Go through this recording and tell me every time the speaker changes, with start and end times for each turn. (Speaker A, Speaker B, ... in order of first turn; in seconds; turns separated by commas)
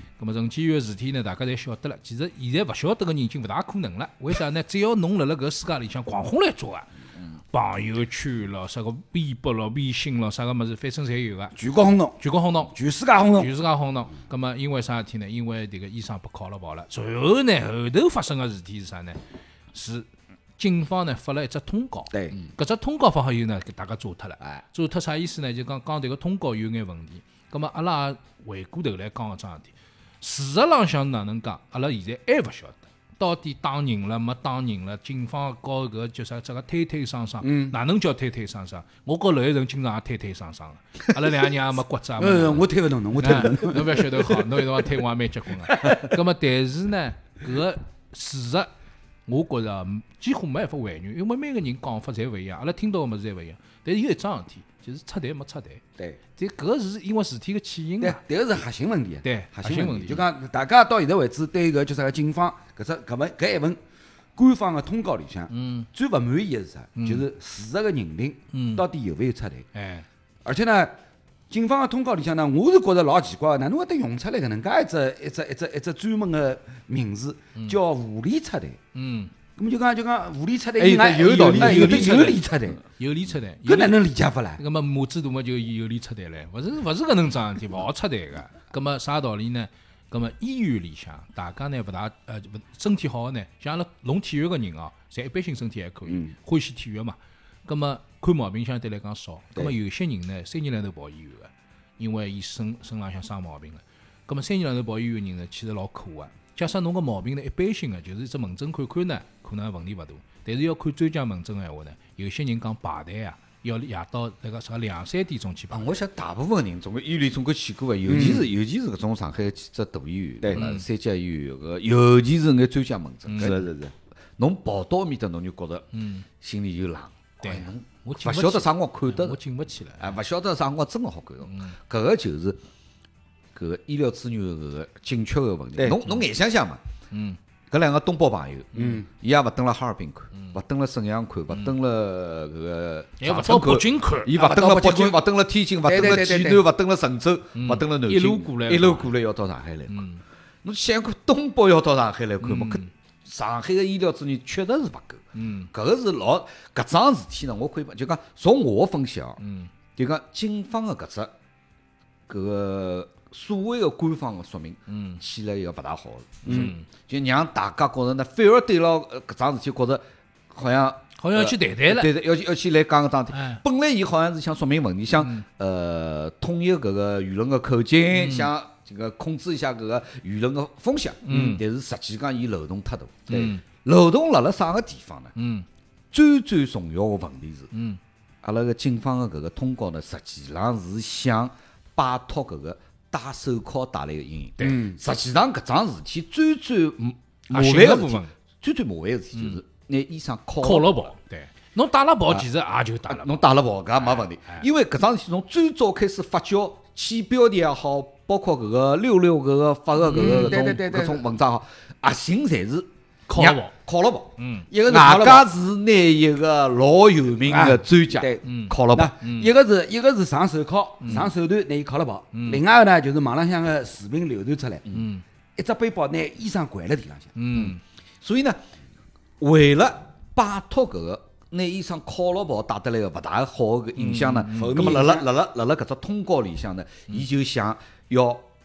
Speaker A: 0.2-6.9, Speaker A: 7.5-11.5, Speaker B: 11.5-12.2, Speaker A: 12.2-12.7, Speaker B: 12.7-13.5, Speaker A: 13.3-19.2, Speaker A: 19.7-20.1, Speaker A: 20.6-48.7, Speaker B: 37.4-37.8, Speaker B: 42.2-44.2, Speaker A: 49.3-55.8, Speaker A: 56.4-58.2, Speaker B: 58.0-63.8, Speaker A: 59.2-60.2, Speaker B: 64.3-69.7, Speaker A: 65.5-65.9, Speaker A: 67.0-67.2, Speaker A: 68.5-68.8, Speaker A: 69.7-70.0, Speaker B: 70.4-70.9, Speaker B: 71.5-78.8, Speaker A: 78.9-79.3, Speaker B: 79.6-82.8, Speaker C: 80.8-82.4, Speaker A: 81.2-82.4, Speaker A: 83.0-84.0, Speaker B: 83.6-84.6, Speaker A: 84.6-115.8, Speaker C: 115.7-123.7, Speaker B: 118.0-118.5, Speaker A: 120.5-120.8, Speaker A: 123.3-123.6, Speaker B: 123.4-123.9, Speaker C: 124.4-125.8, Speaker A: 125.9-126.2, Speaker C: 126.4-129.4, Speaker A: 127.4-130.1, Speaker C: 130.0-132.6, Speaker A: 131.4-131.7, Speaker C: 133.5-136.8, Speaker A: 137.1-137.4, Speaker C: 137.7-150.1, Speaker B: 138.8-139.1, Speaker A: 143.2-144.8, Speaker B: 144.4-145.2, Speaker B: 145.8-146.6, Speaker A: 147.5-149.1, Speaker A: 149.9-150.2, Speaker C: 150.6-159.4, Speaker A: 152.4-152.9, Speaker A: 155.3-155.7, Speaker A: 159.4-159.7, Speaker C: 159.9-161.3, Speaker C: 162.3-185.3, Speaker A: 164.9-165.2, Speaker B: 166.4-166.7, Speaker A: 166.4-166.8, Speaker A: 171.2-172.1, Speaker A: 173.3-173.6, Speaker A: 175.2-175.4, Speaker A: 178.1-178.5, Speaker A: 181.2-181.6, Speaker A: 183.3-183.6, Speaker A: 185.3-185.7, Speaker C: 186.1-187.7, Speaker A: 187.7-188.0, Speaker C: 188.4-201.1, Speaker B: 194.6-195.0, Speaker A: 197.5-198.3, Speaker A: 200.6-203.4, Speaker C: 203.1-214.3, Speaker A: 210.0-210.6, Speaker B: 210.1-211.2, Speaker A: 213.3-213.7, Speaker A: 214.4-214.7, Speaker B: 214.7-215.5, Speaker C: 214.9-219.1, Speaker B: 217.4-224.8, Speaker A: 218.4-219.5, Speaker A: 222.3-222.6, Speaker A: 224.9-225.2, Speaker B: 225.6-227.3, Speaker A: 227.3-227.8, Speaker C: 227.5-228.6, Speaker C: 229.4-238.4, Speaker A: 233.9-234.8, Speaker B: 234.5-235.2